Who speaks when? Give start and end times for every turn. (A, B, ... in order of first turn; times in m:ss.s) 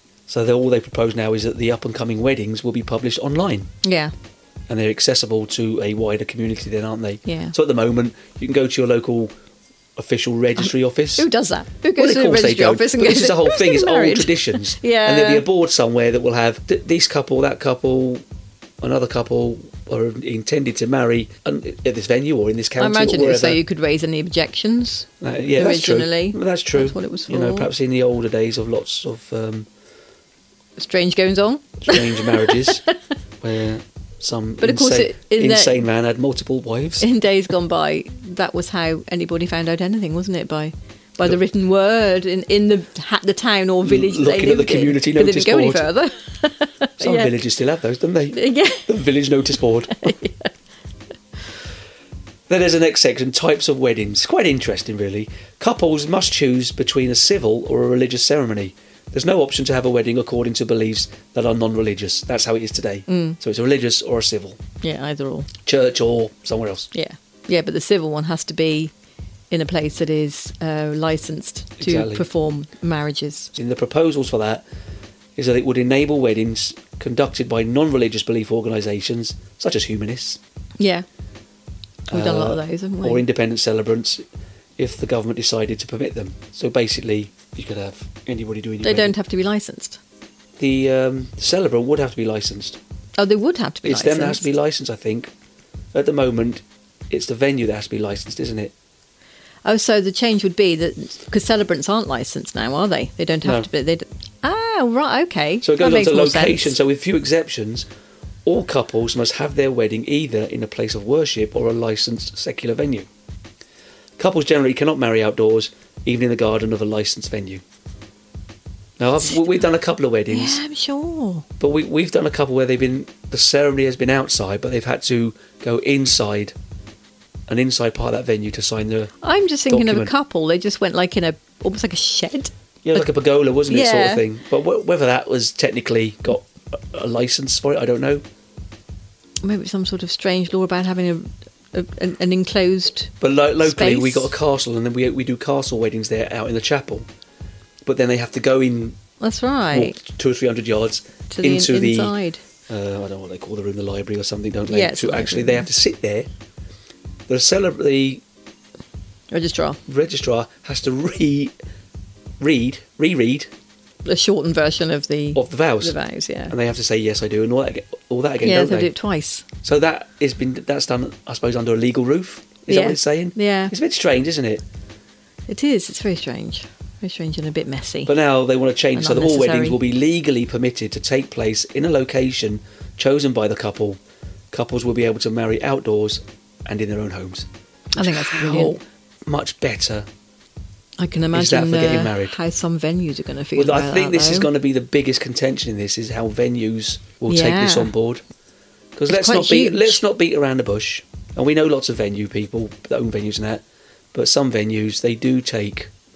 0:00.3-0:03.7 A
0:03.8-0:04.1 B
0:04.7-0:09.3 A
0:07.2-0:07.5 B
0:10.0-0:11.3 A
0:10.6-0:15.4 B
0:12.0-0:18.2 A
0:18.8-0:23.6 A
0:22.8-0:27.7 B
0:25.2-0:29.7 A
0:30.8-0:32.9 B
0:31.8-0:32.8 A
0:33.4-0:37.1 A
0:34.6-0:35.8 B
0:37.0-0:47.4 B
0:43.8-0:45.9 A
0:47.0-0:50.1 A
0:48.3-0:49.0 B
0:49.9-0:50.5 B
0:52.5-1:04.6 A
1:03.1-1:03.4 B
1:04.8-1:05.5 B
1:05.6-1:06.9 A
1:06.9-1:08.9 B
1:09.5-1:13.5 B
1:11.8-1:12.3 A
1:13.5-1:14.6 A
1:15.4-1:20.4 A
1:20.8-1:21.0 B
1:22.1-1:24.2 A
1:22.1-1:23.2 B
1:24.8-1:29.1 A
1:28.8-1:30.0 B
1:30.6-1:32.8 A
1:33.2-1:34.4 B
1:33.8-1:35.3 A
1:35.9-1:38.7 A
1:39.6-1:46.7 B
1:43.4-1:43.7 A
1:45.6-1:47.8 A
1:48.4-1:53.1 A
1:54.2-1:57.6 A
1:59.0-2:00.6 A
2:00.3-2:01.4 B
2:01.6-2:06.5 A
2:07.5-2:09.1 A
2:09.2-2:13.1 B
2:09.7-2:10.1 A
2:12.8-2:18.2 A
2:13.7-2:14.2 B
2:19.4-2:24.3 B
2:23.2-2:27.0 A
2:27.8-2:29.0 A
2:29.2-2:30.0 B
2:29.7-2:32.1 A
2:31.3-2:32.4 B
2:32.7-2:36.3 A
2:34.7-2:35.7 B
2:37.3-2:38.2 A
2:39.3-2:39.8 B
2:39.9-2:41.5 A
2:42.4-2:43.5 A
2:44.0-2:46.5 B
2:45.3-2:46.0 A
2:46.5-2:48.9 A
2:48.4-2:49.4 B
2:49.6-2:54.6 A
2:52.7-2:53.7 B
2:55.5-2:58.1 B
2:58.0-3:04.0 A
2:59.0-2:59.8 B
3:04.5-3:10.1 A
3:08.0-3:08.7 B
3:11.0-3:14.5 B
3:11.3-3:12.4 A
3:13.6-3:18.2 A
3:17.3-3:17.9 B
3:19.0-3:23.6 A
3:19.1-3:20.0 B
3:24.1-3:25.9 A